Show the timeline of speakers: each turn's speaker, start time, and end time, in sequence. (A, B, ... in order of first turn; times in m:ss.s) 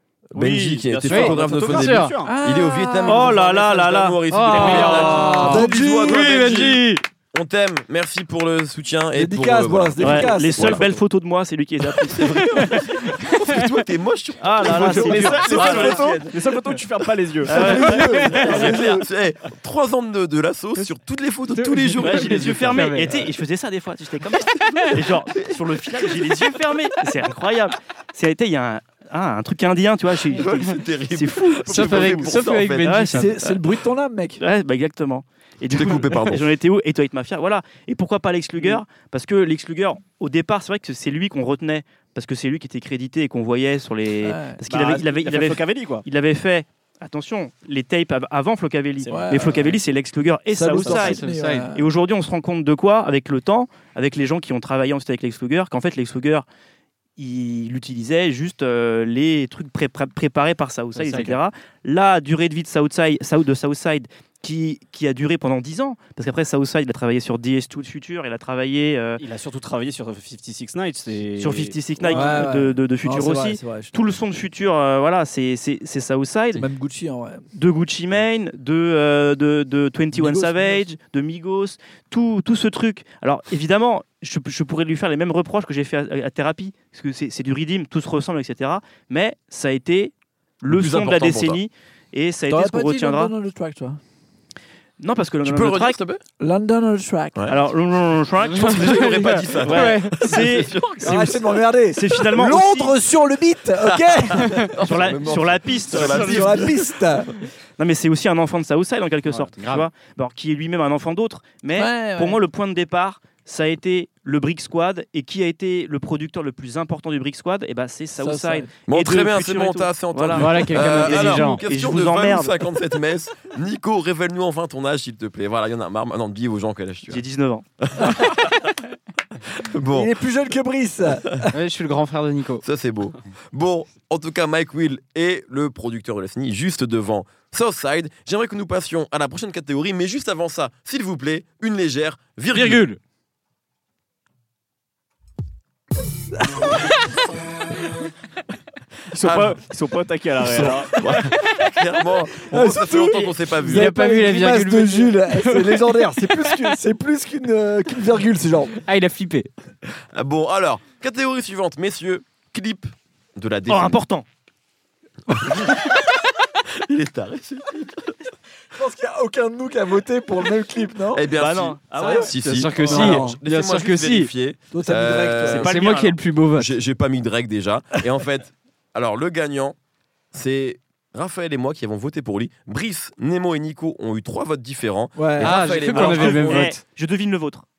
0:00.3-0:02.4 A
0:00.3-0:11.0 B
0:01.1-0:02.1 C
0:02.2-0:03.4 D
0:03.0-0:05.1 E
0:04.3-0:07.0 C
0:04.7-0:06.7 D
0:09.1-0:10.9 D
0:10.0-0:12.8 E
0:12.0-0:16.4 B
0:12.4-0:12.8 C
0:14.4-0:16.2 E
0:14.9-0:18.6 A
0:17.5-0:18.7 E
0:17.5-0:19.0 D
0:17.5-0:22.9 B
0:17.9-0:18.5 C
0:21.5-0:23.2 C
0:22.0-0:33.6 E
0:24.6-0:25.0 C
0:25.3-0:26.4 B
0:30.2-0:33.0 B
0:31.6-0:33.4 C
0:33.1-0:34.4 D
0:34.4-0:56.4 E
0:35.7-0:36.4 B
0:44.2-0:44.6 D
0:44.7-0:46.0 A
0:49.0-0:49.8 A
0:49.1-0:49.7 D
0:50.5-0:51.9 D
0:50.8-0:51.7 C
0:57.2-1:09.2 E
1:01.0-1:01.4 C
1:09.2-1:12.4 A
1:11.4-1:16.6 E
1:12.1-1:13.9 D
1:16.5-1:17.5 D
1:17.6-1:33.3 E
1:20.1-1:20.8 D
1:30.7-1:31.6 B
1:32.5-1:34.0 D
1:35.0-1:36.0 E
1:35.4-1:36.2 B
1:36.4-1:37.5 D
1:37.5-1:42.9 E
1:38.5-1:40.3 C
1:38.6-1:41.6 B
1:41.0-1:44.7 D
1:43.8-1:47.0 B
1:44.4-1:44.7 C
1:44.8-1:46.7 E
1:45.9-1:47.3 D
1:47.8-2:02.5 E
1:49.3-1:49.9 C
1:51.7-1:52.4 D
1:58.2-1:58.7 D
1:58.9-2:07.2 B
2:00.3-2:01.6 C
2:07.1-2:07.6 E
2:07.8-2:08.7 B
2:08.0-2:08.3 D
2:09.5-2:10.1 B
2:09.9-2:11.5 D
2:11.5-2:12.6 C
2:12.6-2:22.8 B
2:22.5-2:23.0 C
2:26.3-2:27.0 D
2:29.1-2:31.0 A
2:29.2-2:29.6 B
2:30.4-2:33.9 B
2:32.4-2:38.8 D
2:33.6-2:36.6 C
2:38.8-2:39.5 C
2:40.1-2:44.0 B
2:43.7-2:44.2 E
2:45.3-2:46.1 B
2:46.8-2:48.2 B
2:48.7-2:51.3 D
2:51.1-2:59.8 B
2:51.3-2:52.3 E
2:52.0-2:53.4 D
2:52.3-2:54.3 C
2:54.7-2:55.7 D
2:55.5-2:56.1 E
2:55.5-2:56.7 C
3:00.3-3:06.7 B
3:05.2-3:05.6 D
3:05.4-3:06.8 C
3:05.9-3:07.6 E